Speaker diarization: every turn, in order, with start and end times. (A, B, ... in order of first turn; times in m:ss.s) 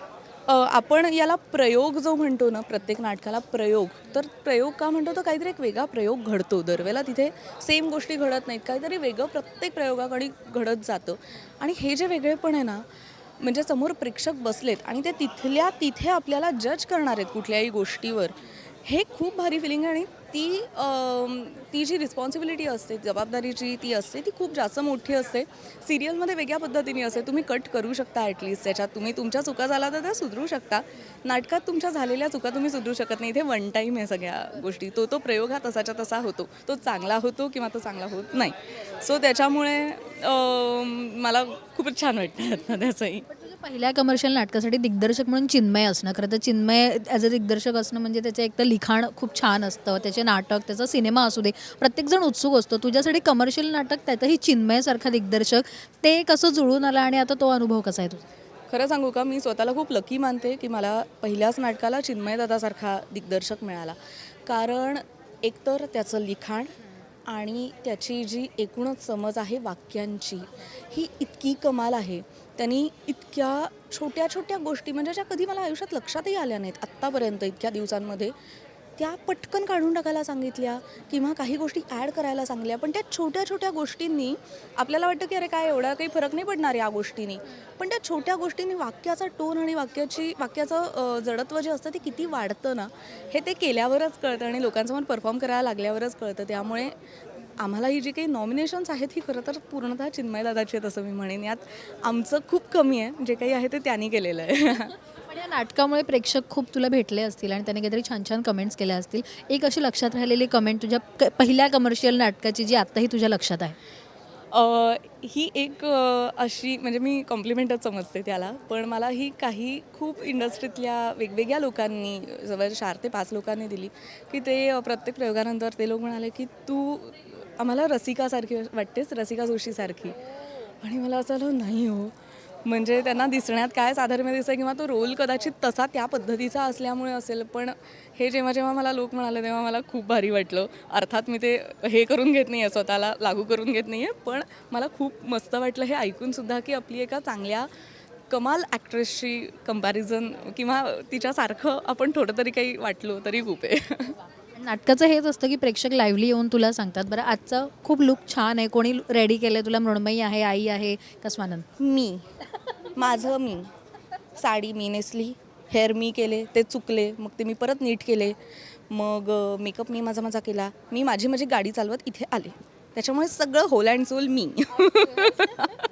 0:00.5-0:12.9 A
0:13.4-0:43.3 A
0:43.3-0:58.2 B
0:58.7-1:06.7 A
1:07.3-1:18.4 A
1:19.0-1:37.0 A
1:37.6-1:44.9 A
1:45.3-1:53.8 B
1:54.5-2:10.2 A
2:10.8-2:27.7 A
2:28.3-2:34.2 A
2:34.5-2:41.7 B
2:41.8-2:42.3 A
2:43.0-2:43.7 A
2:44.4-2:48.4 A
2:48.9-2:55.8 A
2:55.2-2:55.7 B